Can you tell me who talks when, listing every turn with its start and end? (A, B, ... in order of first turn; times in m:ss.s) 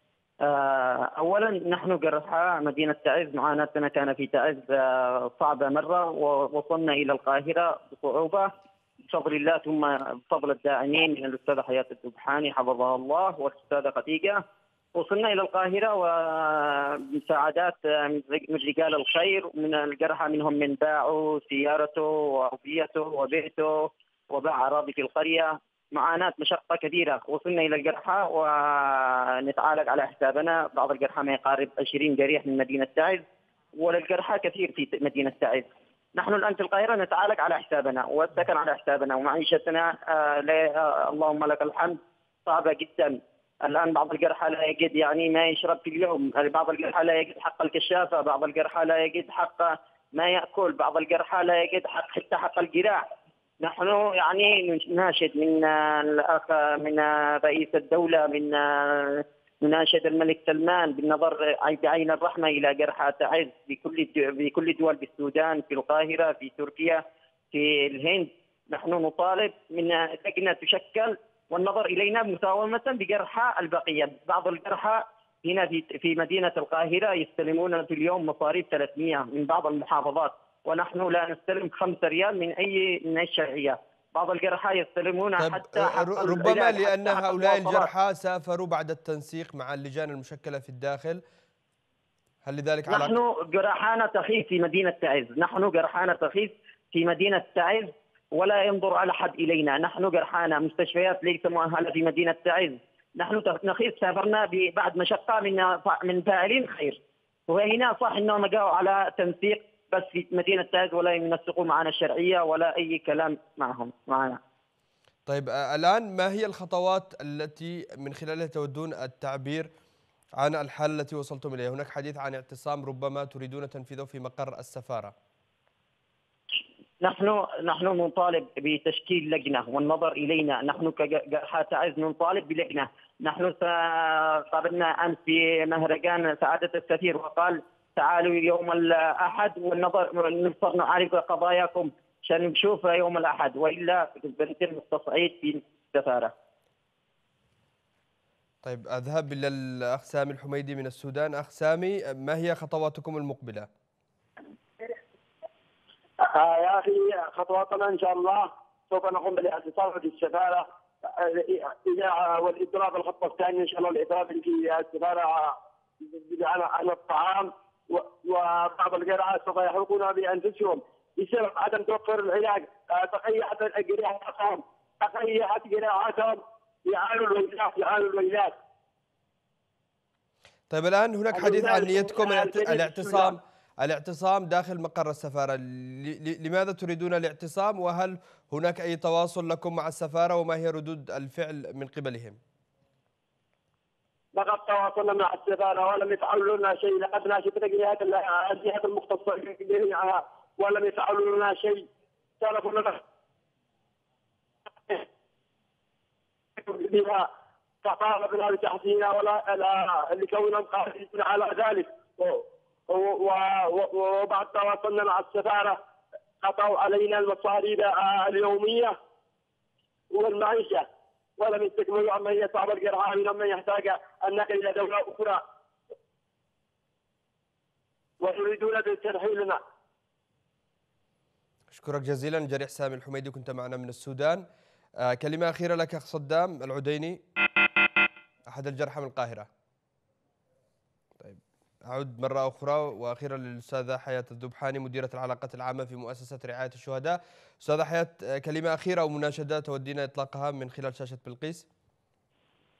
0:00.4-0:08.5 A
0:09.1-0:14.4 A
0:14.9-0:33.2 A
0:33.8-0:53.0 A
0:53.6-1:27.9 A
1:25.4-1:31.2 B
1:32.4-1:33.2 B
1:32.9-1:54.4 A
1:55.2-1:59.7 B
2:00.4-2:05.1 B
2:07.0-2:26.3 A
2:28.6-2:33.7 B
2:36.2-2:58.5 C
3:00.7-3:12.4 B
3:01.3-3:03.3 C
3:14.3-3:21.8 C
3:22.4-3:23.0 C
3:26.6-3:27.2 C
3:27.8-3:35.8 C
3:36.4-3:38.9 C
3:40.1-3:40.8 C
3:41.4-3:45.4 C
3:48.2-3:49.6 C
3:51.7-3:54.4 B
3:55.0-3:57.2 B
3:58.5-3:59.5 B
4:01.2-4:11.7 B